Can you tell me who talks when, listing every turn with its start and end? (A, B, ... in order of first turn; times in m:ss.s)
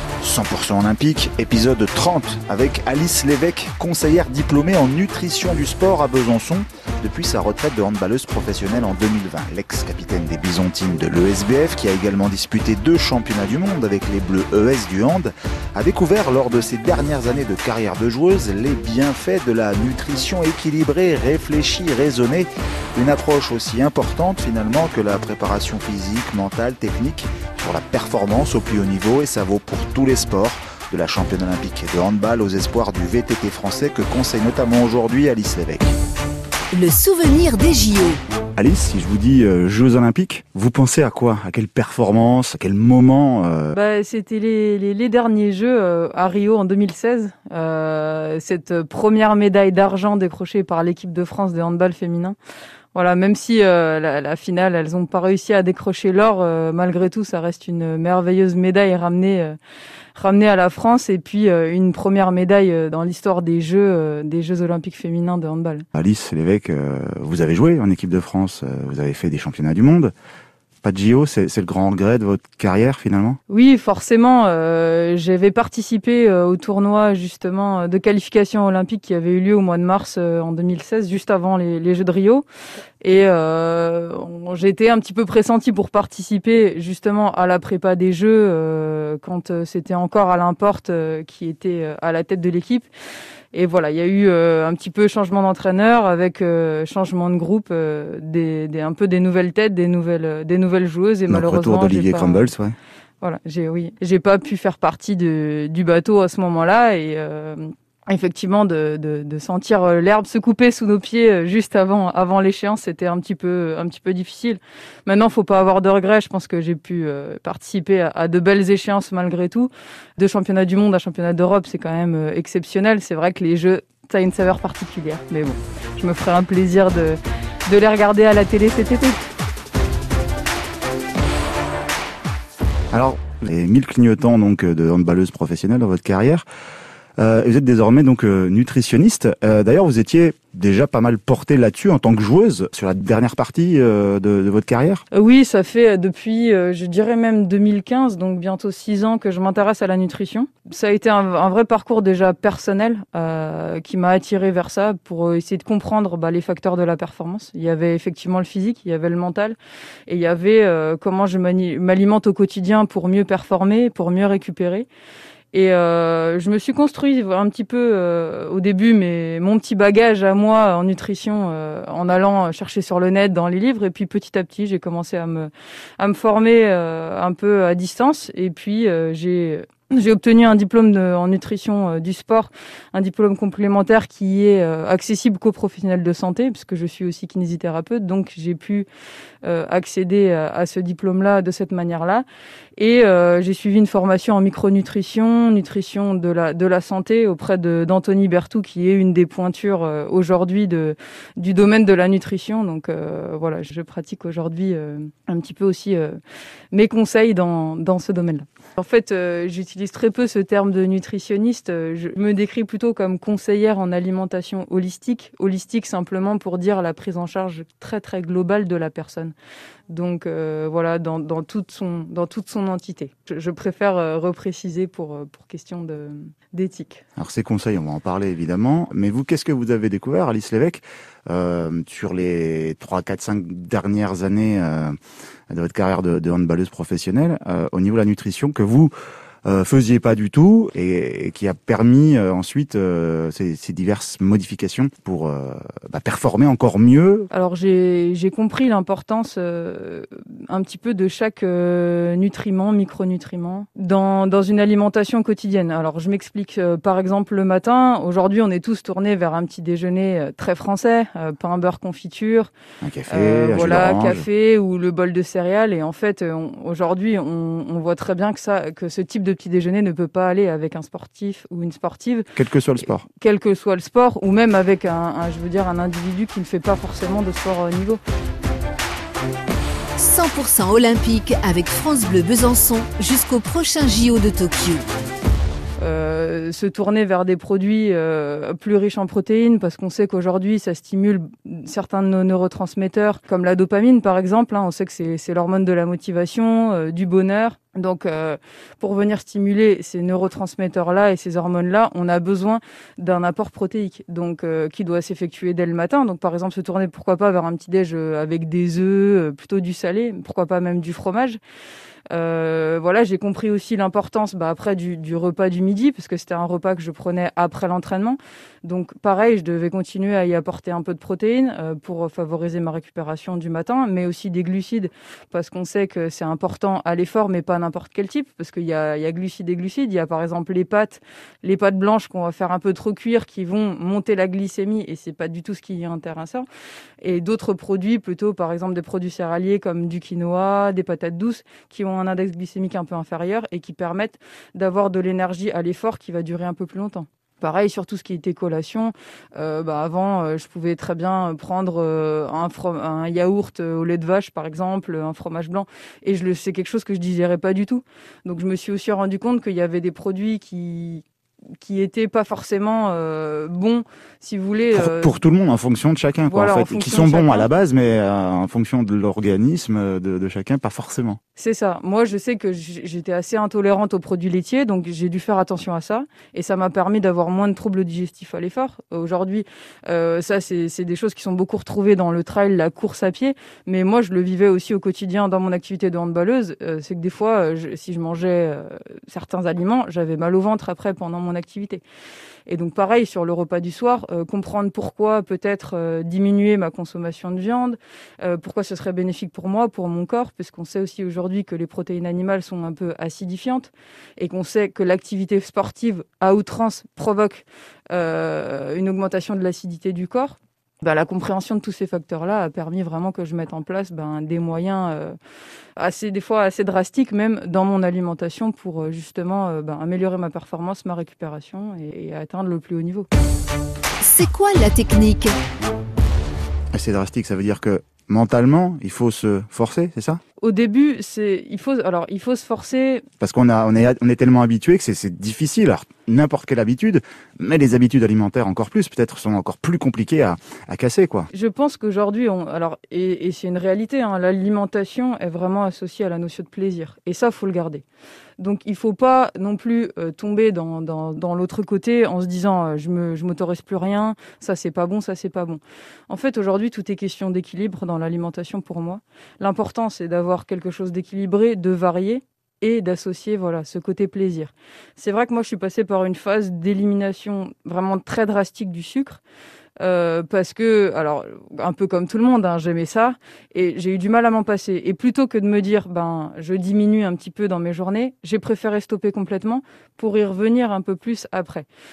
0:00.2-0:35.9 A
0:36.7-0:38.2 B
0:38.6-0:43.8 A
0:43.7-0:52.4 C
0:53.0-0:59.6 C
1:00.2-1:05.9 C
1:05.9-1:10.1 A
1:10.8-1:13.4 A
1:13.5-1:22.4 C
1:23.0-1:32.9 C
1:33.5-1:42.5 C
1:41.3-1:42.8 A
1:43.2-2:09.3 C
2:12.9-2:16.4 A
2:17.2-2:25.0 A
2:25.1-2:39.6 C
2:40.1-2:44.9 C
2:45.5-3:08.9 C
3:09.4-3:12.2 C
3:12.8-3:26.2 C
3:26.7-3:39.3 C
3:39.9-3:47.0 C
3:47.2-3:55.0 A
3:55.5-3:58.9 A
3:59.4-4:07.3 A
4:07.3-4:22.5 C
4:22.8-4:24.3 A
4:23.1-4:32.3 C
4:32.4-4:33.0 A
4:33.0-4:38.0 C
4:40.0-4:44.9 B
4:45.8-5:11.4 C
5:12.1-5:36.5 C
5:37.0-6:01.0 C
6:01.6-6:05.2 C
6:04.7-6:11.2 A
6:06.3-6:07.5 C
6:11.4-6:31.8 C
6:32.5-6:55.2 C
6:55.8-7:03.1 C
7:04.0-7:05.4 B
7:06.7-7:10.2 A
7:10.4-7:13.1 C
7:13.2-7:21.3 A
7:21.3-7:27.8 C
7:28.4-7:49.2 C
7:49.8-8:01.7 C